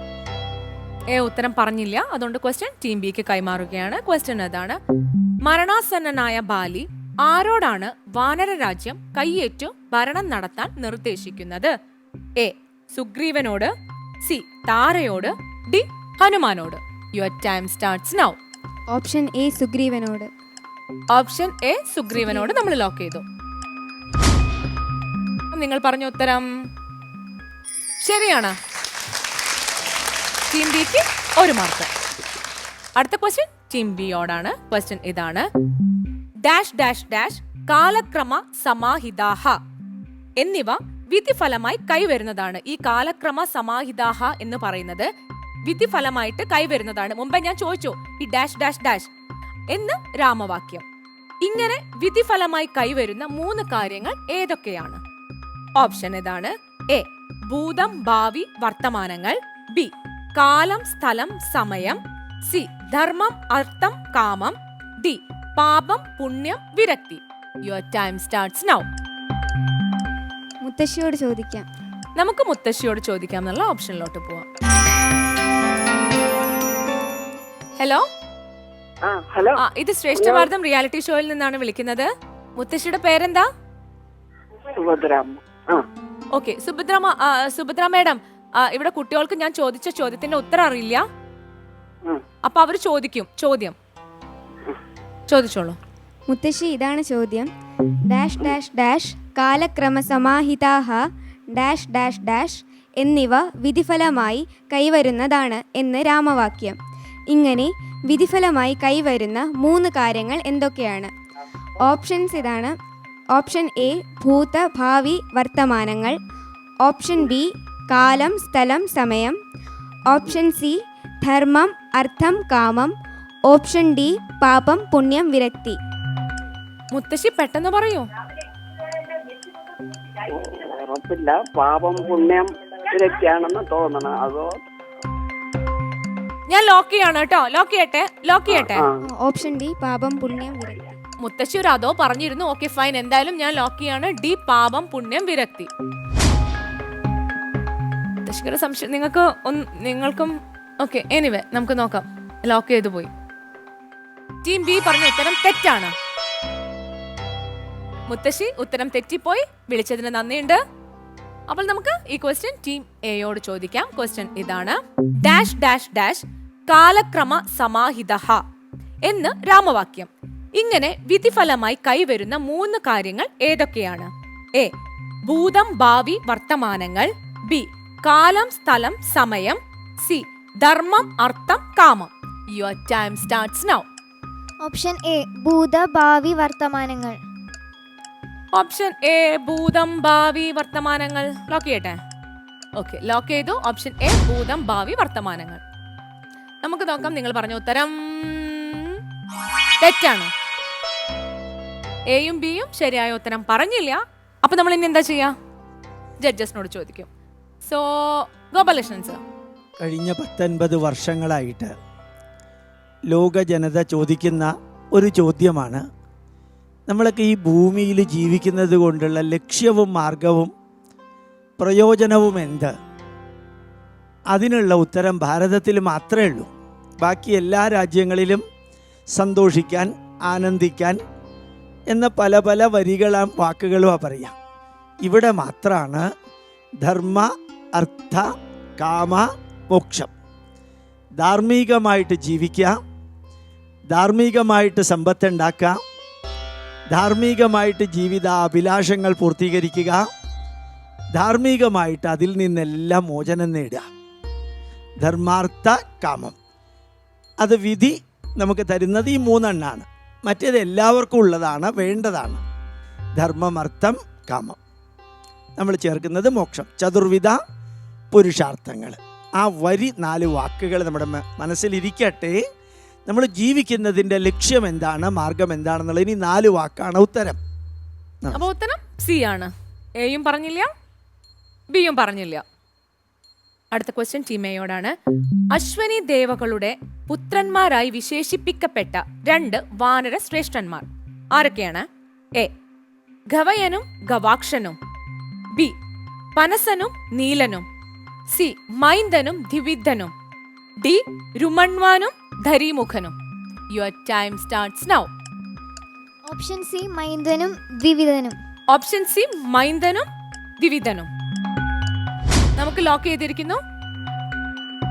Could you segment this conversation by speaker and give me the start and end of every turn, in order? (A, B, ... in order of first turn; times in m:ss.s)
0:01.1-0:04.8 A
0:05.4-0:11.7 A
0:12.4-0:13.7 A
0:14.2-0:18.4 A
0:18.9-0:20.3 B
0:21.1-0:23.2 A
0:25.5-0:26.5 A
0:28.0-0:28.6 A
0:30.5-0:31.9 A
0:33.0-0:35.5 A
0:36.4-0:39.6 A
0:40.4-0:45.1 A
0:45.7-0:49.1 A
0:49.7-0:50.8 A
0:51.4-0:55.0 A
0:55.8-1:08.9 A
1:10.6-1:11.7 B
1:12.2-1:14.5 A
1:17.8-1:18.0 A
1:19.0-1:19.6 C
1:19.6-1:23.5 A
1:20.2-1:20.5 C
1:24.8-1:25.8 C
1:26.4-1:31.0 A
1:32.4-1:33.8 A
1:35.3-1:35.8 A
1:36.3-1:37.5 B
1:38.1-1:41.0 B
1:41.5-1:46.8 B
1:47.3-1:51.1 B
1:51.8-1:52.8 B
1:53.3-1:56.2 B
1:56.8-1:59.4 B
2:00.1-2:02.9 B
2:03.5-2:05.8 B
2:06.9-2:08.1 A
2:10.3-2:14.6 C
2:16.5-2:18.8 A
2:18.5-2:19.0 C
2:19.1-2:20.9 B
2:21.2-2:25.7 A
2:28.2-2:33.1 A
2:34.4-2:35.9 A
2:38.1-2:40.6 A
2:41.5-2:48.4 A
2:49.1-2:54.7 A
2:55.3-3:03.9 A
3:04.6-3:07.2 D
3:08.6-3:12.0 A
3:12.8-3:15.6 A
3:16.6-3:19.0 A
3:19.8-3:20.3 A
3:22.1-3:25.3 A
3:26.2-3:27.1 A
3:27.6-3:29.2 A
3:29.8-3:31.7 E
3:33.1-3:35.8 E
3:36.9-3:40.5 E
3:41.6-3:42.7 E
3:44.3-3:46.5 E
3:47.0-3:48.4 E
3:49.2-3:51.0 E
3:51.9-3:54.3 E
3:55.0-3:56.1 E
3:56.8-3:58.2 E
3:58.8-4:00.1 E
4:01.2-4:02.7 E
4:03.9-4:05.8 E
4:06.9-4:10.0 E
4:11.2-4:13.9 E
4:15.0-4:16.4 E
4:17.4-4:22.4 E
4:23.2-4:24.6 E
4:25.6-4:27.4 E
4:28.1-4:32.4 E
4:33.1-4:37.4 E
4:38.3-4:40.7 A
4:41.7-4:42.4 A
4:43.7-4:45.0 A
4:45.5-4:52.5 A
4:53.3-4:54.8 A
4:56.4-4:57.7 A
4:58.3-5:00.1 A
5:00.8-5:03.2 A
5:03.7-5:05.1 A
5:06.3-5:08.4 D
5:08.7-5:10.1 A
5:10.6-5:11.1 A
5:12.6-5:13.6 A